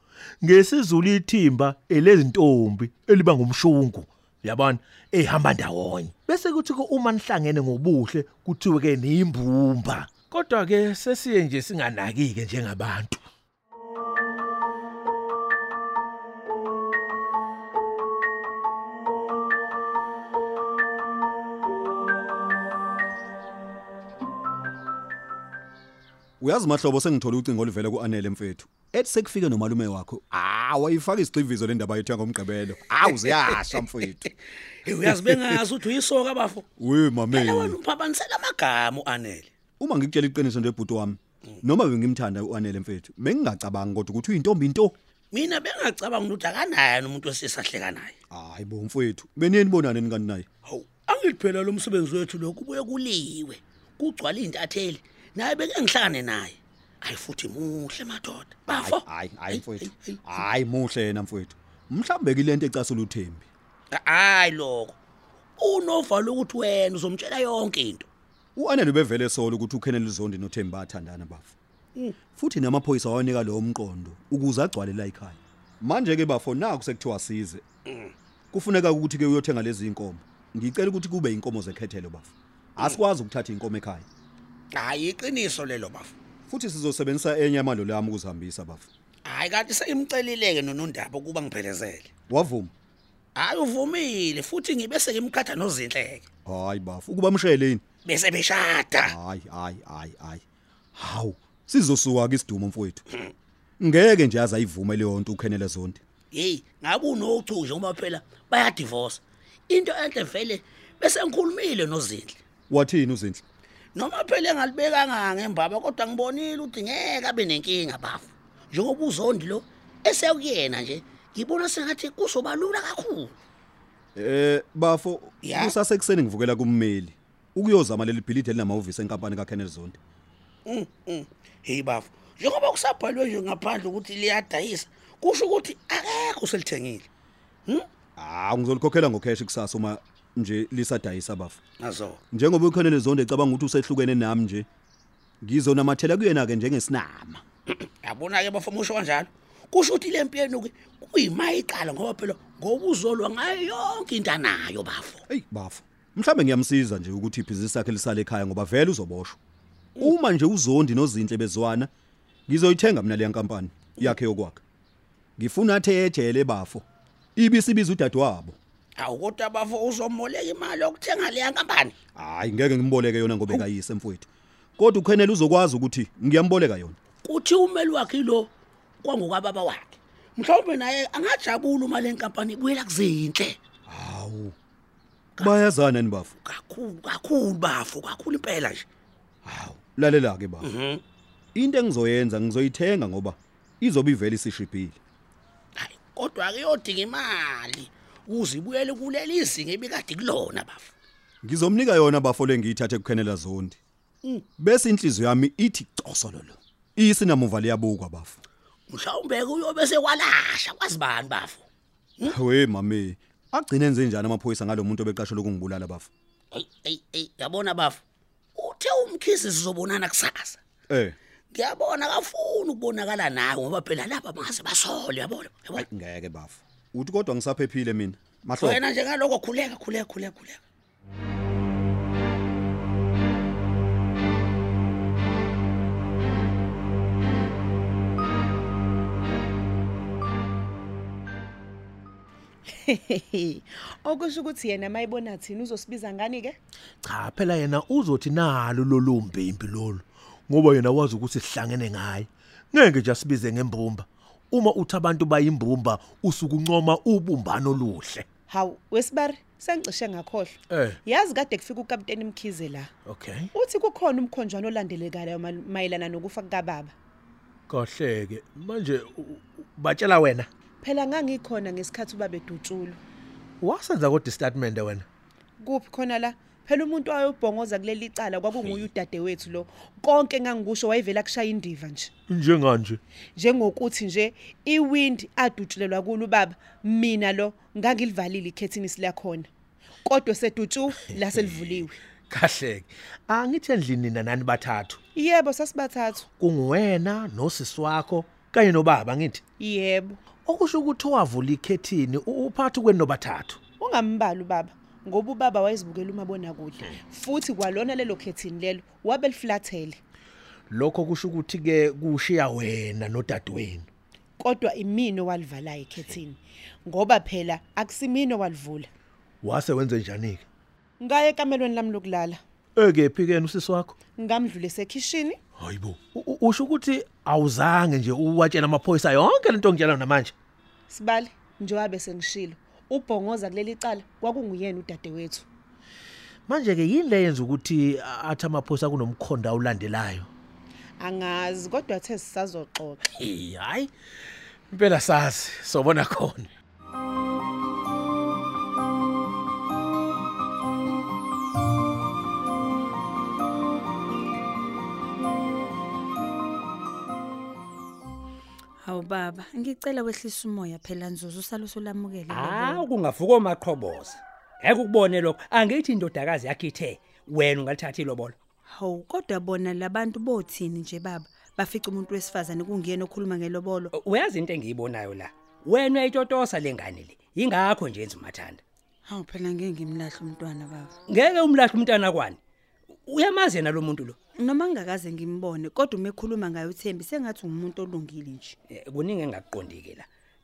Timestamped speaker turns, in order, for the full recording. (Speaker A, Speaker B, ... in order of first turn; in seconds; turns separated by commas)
Speaker A: 0.4-13.2, Speaker B: 26.4-34.3, Speaker C: 34.9-36.6, Speaker B: 35.0-35.6, Speaker B: 36.8-37.8, Speaker C: 37.3-39.5, Speaker B: 39.8-44.9, Speaker C: 45.3-48.1, Speaker B: 48.3-50.5, Speaker C: 50.6-60.2, Speaker B: 58.7-63.5, Speaker C: 63.9-65.0, Speaker C: 65.6-68.1, Speaker B: 68.5-71.5, Speaker B: 72.3-77.6, Speaker B: 78.5-84.1, Speaker C: 84.8-86.1, Speaker B: 86.5-88.9, Speaker C: 89.3-92.1, Speaker B: 92.3-92.7, Speaker C: 93.3-96.2, Speaker B: 96.5-97.8, Speaker C: 98.0-99.1, Speaker B: 99.0-100.4, Speaker B: 101.0-103.0, Speaker B: 103.8-106.0, Speaker C: 106.3-112.4, Speaker B: 112.7-113.4, Speaker C: 114.0-123.3, Speaker B: 124.1-130.0, Speaker C: 125.4-125.7, Speaker C: 130.7-137.1, Speaker B: 138.2-141.6, Speaker C: 141.8-142.2, Speaker B: 142.3-144.7, Speaker B: 145.4-147.4, Speaker C: 148.0-155.2, Speaker B: 155.3-159.4, Speaker B: 160.0-161.9, Speaker B: 162.5-164.6, Speaker B: 165.4-166.8, Speaker B: 167.3-168.6, Speaker C: 169.0-171.9, Speaker B: 172.2-177.0, Speaker C: 177.2-178.5, Speaker C: 179.0-183.6, Speaker B: 183.9-184.6, Speaker B: 185.4-186.3, Speaker C: 186.4-188.8, Speaker B: 189.4-190.7, Speaker C: 190.6-191.0, Speaker B: 191.5-195.0, Speaker C: 195.8-200.9, Speaker B: 201.4-203.8, Speaker B: 204.6-208.4, Speaker C: 208.9-211.6, Speaker B: 212.2-216.1, Speaker C: 216.5-218.0, Speaker C: 218.6-220.6, Speaker B: 220.9-221.2, Speaker C: 221.5-225.8, Speaker B: 225.7-228.8, Speaker C: 228.6-230.6, Speaker D: 242.8-246.6, Speaker A: 247.0-258.2, Speaker D: 258.5-262.9, Speaker A: 260.7-261.0, Speaker A: 263.1-263.5, Speaker D: 263.5-266.9, Speaker A: 267.7-270.5, Speaker D: 270.8-273.0, Speaker A: 273.6-275.0, Speaker D: 275.6-282.1, Speaker A: 282.3-283.0, Speaker D: 283.4-289.5, Speaker D: 290.0-291.9, Speaker A: 291.1-295.0, Speaker D: 295.1-296.3, Speaker A: 296.4-299.4, Speaker D: 299.6-300.2, Speaker A: 300.4-303.6, Speaker D: 303.8-310.0, Speaker A: 310.7-313.9, Speaker D: 314.4-318.9, Speaker A: 319.4-320.4, Speaker D: 321.0-322.4, Speaker A: 322.8-323.9, Speaker D: 324.2-325.4, Speaker A: 325.6-330.3, Speaker D: 330.9-335.4, Speaker A: 336.5-340.3, Speaker D: 341.0-343.0, Speaker A: 343.0-343.9, Speaker A: 344.7-346.5, Speaker E: 358.8-362.8, Speaker F: 362.3-368.3, Speaker E: 368.7-373.9, Speaker F: 373.9-378.6, Speaker E: 379.1-380.9, Speaker F: 381.1-382.4, Speaker F: 383.1-384.1, Speaker E: 384.4-388.6, Speaker F: 388.7-390.1